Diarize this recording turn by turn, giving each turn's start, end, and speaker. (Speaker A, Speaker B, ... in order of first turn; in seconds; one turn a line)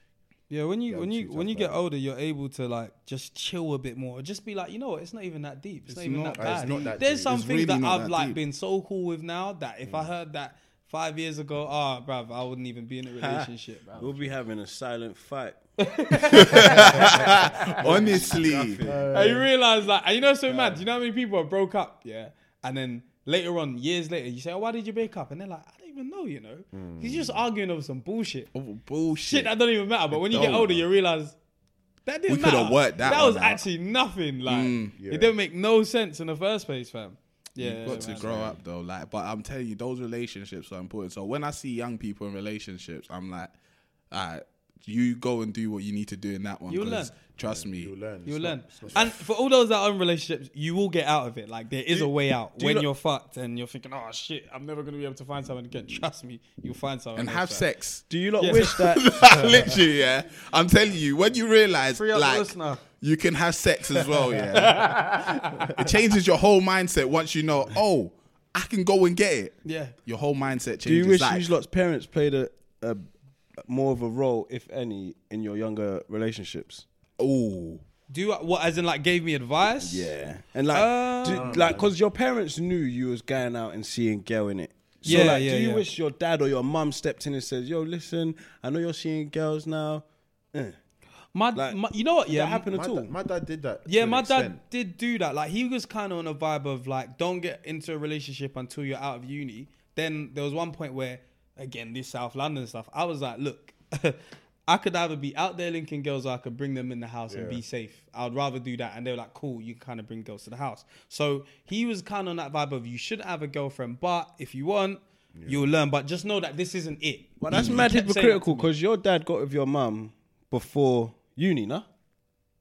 Speaker A: 0.5-14.3
Speaker B: 0.9-1.8
Speaker C: 6.0-8.4
Speaker B: 6.3-7.4
Speaker B: 9.8-10.1
Speaker D: 13.2-15.6
Speaker A: 15.8-17.7
Speaker C: 16.3-18.8
Speaker B: 16.6-18.2
Speaker D: 16.6-19.1
Speaker B: 18.8-19.5
Speaker A: 19.1-28.5
Speaker B: 20.5-20.8
Speaker B: 26.7-27.4
Speaker C: 28.5-29.5
Speaker A: 29.2-31.4
Speaker B: 30.1-30.8
Speaker C: 30.3-30.7
Speaker A: 32.0-38.3
Speaker C: 32.3-33.6
Speaker C: 34.5-34.9
Speaker B: 34.8-35.3
Speaker C: 37.6-43.5
Speaker B: 37.8-38.6
Speaker C: 44.1-47.9
Speaker A: 46.7-47.1
Speaker B: 47.4-49.1
Speaker A: 48.2-57.7
Speaker D: 51.9-52.9
Speaker C: 57.1-71.5
Speaker D: 58.1-59.1
Speaker A: 58.4-58.8
Speaker A: 61.9-62.8
Speaker A: 64.5-65.7
Speaker A: 69.6-69.9
Speaker D: 70.8-73.1
Speaker D: 73.6-76.8
Speaker C: 77.2-77.8
Speaker A: 78.1-80.1
Speaker D: 79.8-90.8
Speaker A: 80.7-81.5
Speaker B: 81.2-81.9
Speaker A: 85.0-85.8
Speaker A: 91.3-92.7
Speaker D: 91.5-93.1
Speaker B: 92.7-94.6
Speaker A: 93.8-118.7
Speaker B: 107.3-107.6
Speaker B: 115.3-115.7
Speaker D: 117.4-121.8
Speaker C: 117.5-117.8